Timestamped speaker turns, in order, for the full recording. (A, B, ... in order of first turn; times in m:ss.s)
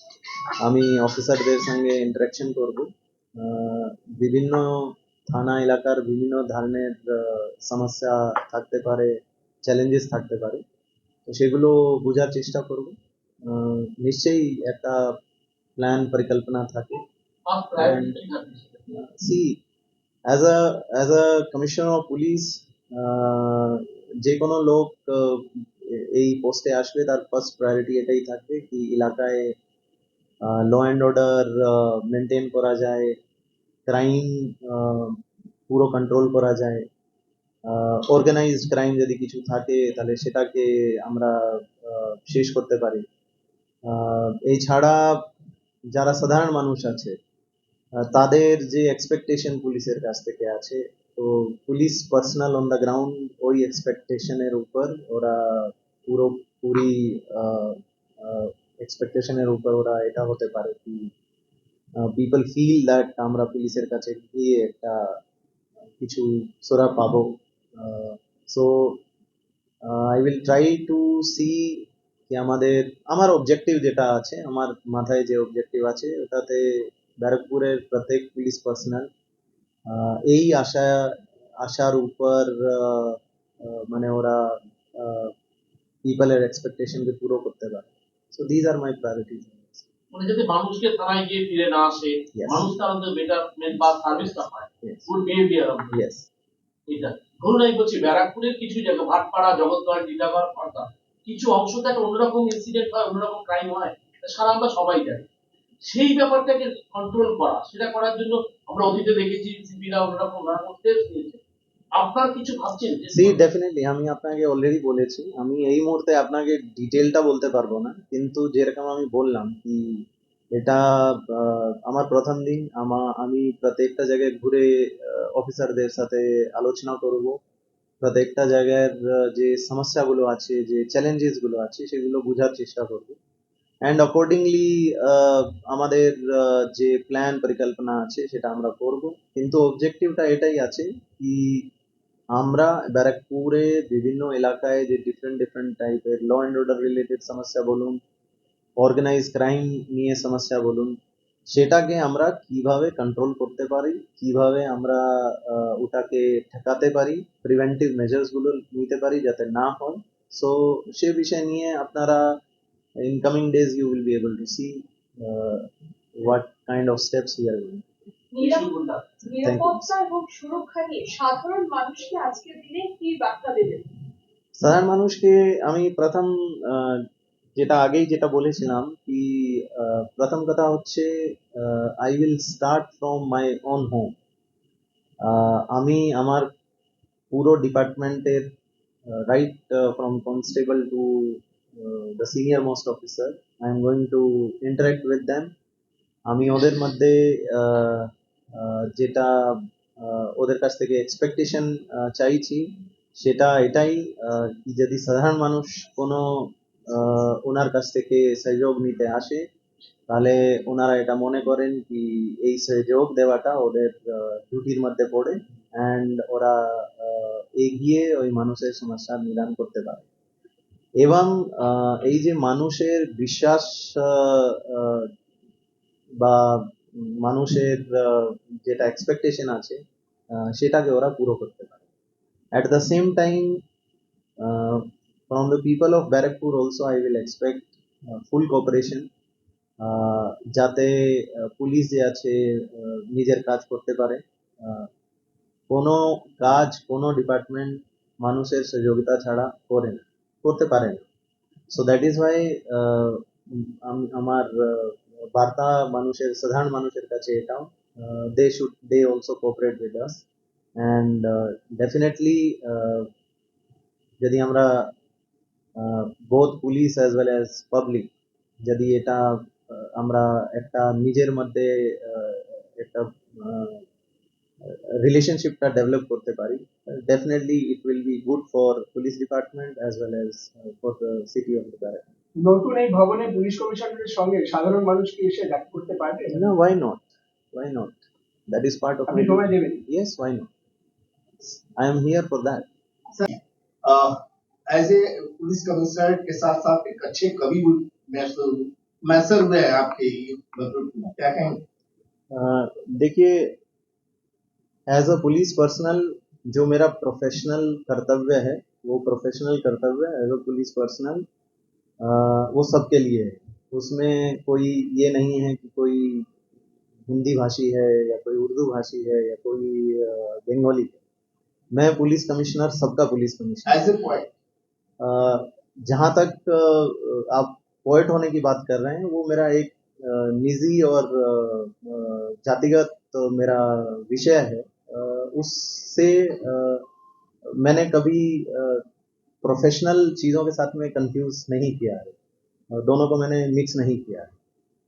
0:00.6-0:10.6 A
0:11.3-0:15.2 A
0:15.8-0:17.0 A
0:17.5-0:18.8 B
0:17.8-0:18.2 A
0:18.9-0:19.6 A
0:20.3-0:29.6 A
0:30.4-0:33.2 A
0:33.9-0:35.2 A
0:35.7-0:36.8 A
0:37.7-0:43.0 A
0:43.8-0:45.3 A
0:45.9-0:47.2 A
0:48.0-1:01.1 A
1:02.0-1:05.2 A
1:06.0-1:09.0 A
1:09.8-1:19.1 A
1:19.9-1:25.3 A
1:26.0-1:29.9 A
1:30.1-1:36.0 B
1:32.3-1:32.7 A
1:34.8-1:35.1 A
1:35.9-1:36.3 A
1:36.9-1:45.3 B
1:45.8-1:51.4 B
1:52.0-1:53.4 B
1:53.1-2:07.4 A
2:08.0-2:13.2 A
2:13.8-2:21.7 A
2:22.4-2:28.0 A
2:28.8-2:30.9 A
2:31.5-2:42.3 A
2:43.0-2:47.8 A
2:48.3-2:53.9 C
2:48.4-2:49.1 B
2:49.4-2:49.9 A
2:54.6-2:57.0 A
2:57.6-3:04.1 A
3:05.2-3:06.5 A
3:07.3-3:08.5 A
3:09.1-3:15.5 A
3:16.3-3:29.4 A
3:30.1-3:40.1 A
3:41.0-3:45.1 A
3:46.2-3:49.8 A
3:50.3-3:51.8 A
3:52.5-3:53.6 A
3:54.4-3:59.1 A
3:59.8-4:04.9 A
4:05.7-4:11.0 A
4:11.7-4:20.2 A
4:20.8-4:23.1 A
4:24.2-4:24.9 A
4:25.8-4:28.1 A
4:28.6-4:33.8 A
4:34.6-4:42.1 A
4:42.4-4:46.4 D
4:46.3-4:50.5 A
4:49.1-4:49.8 D
4:51.8-4:52.7 A
4:53.2-4:54.2 E
4:54.7-5:01.6 E
5:02.3-5:03.6 A
5:04.9-5:11.2 A
5:12.0-5:16.3 A
5:17.1-5:21.0 A
5:21.7-5:23.8 A
5:23.7-5:24.3 E
5:25.0-5:36.9 A
5:37.6-5:38.8 A
5:39.4-5:42.2 A
5:42.7-5:44.3 A